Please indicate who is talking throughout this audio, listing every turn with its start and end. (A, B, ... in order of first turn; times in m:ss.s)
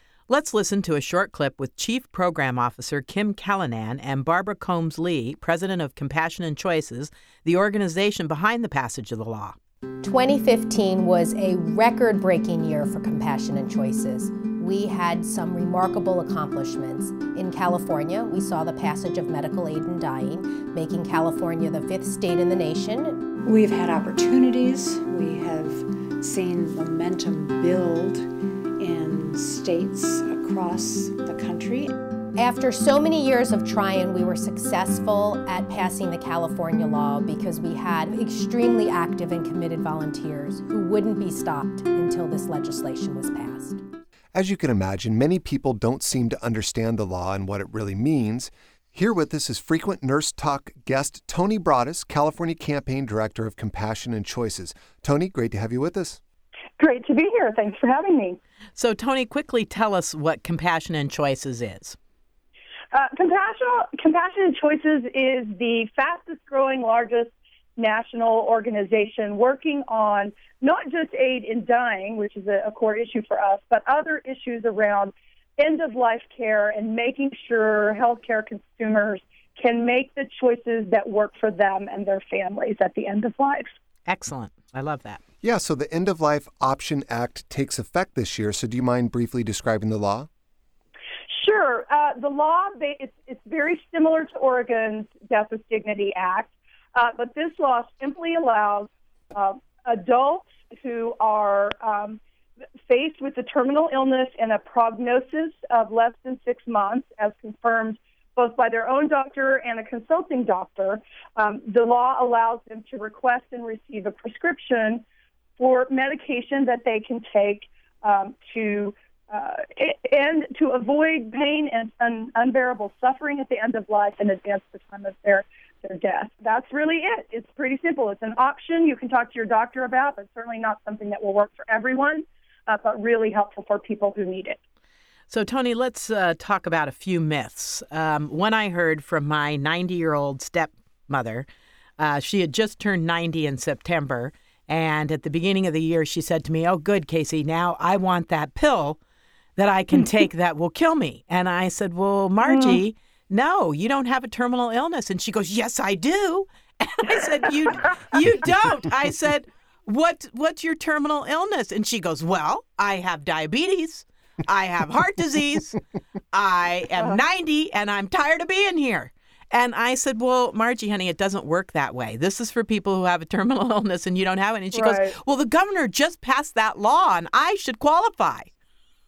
0:00.3-0:09.6 A
0:10.0-0:23.3 B
0:23.4-0:31.9 C
0:32.4-0:43.8 B
0:44.3-0:56.2 D
0:56.8-0:58.4 E
0:58.8-1:02.0 A
1:02.9-1:23.7 E
1:24.1-1:25.2 A
1:25.4-1:30.3 D
1:31.3-1:42.2 E
1:42.9-1:55.0 E
1:55.6-2:14.6 E
2:15.3-2:21.5 A
2:22.0-2:29.0 A
2:29.6-2:45.8 A
2:32.4-2:32.8 E
2:46.3-2:58.5 A
2:54.7-2:55.2 E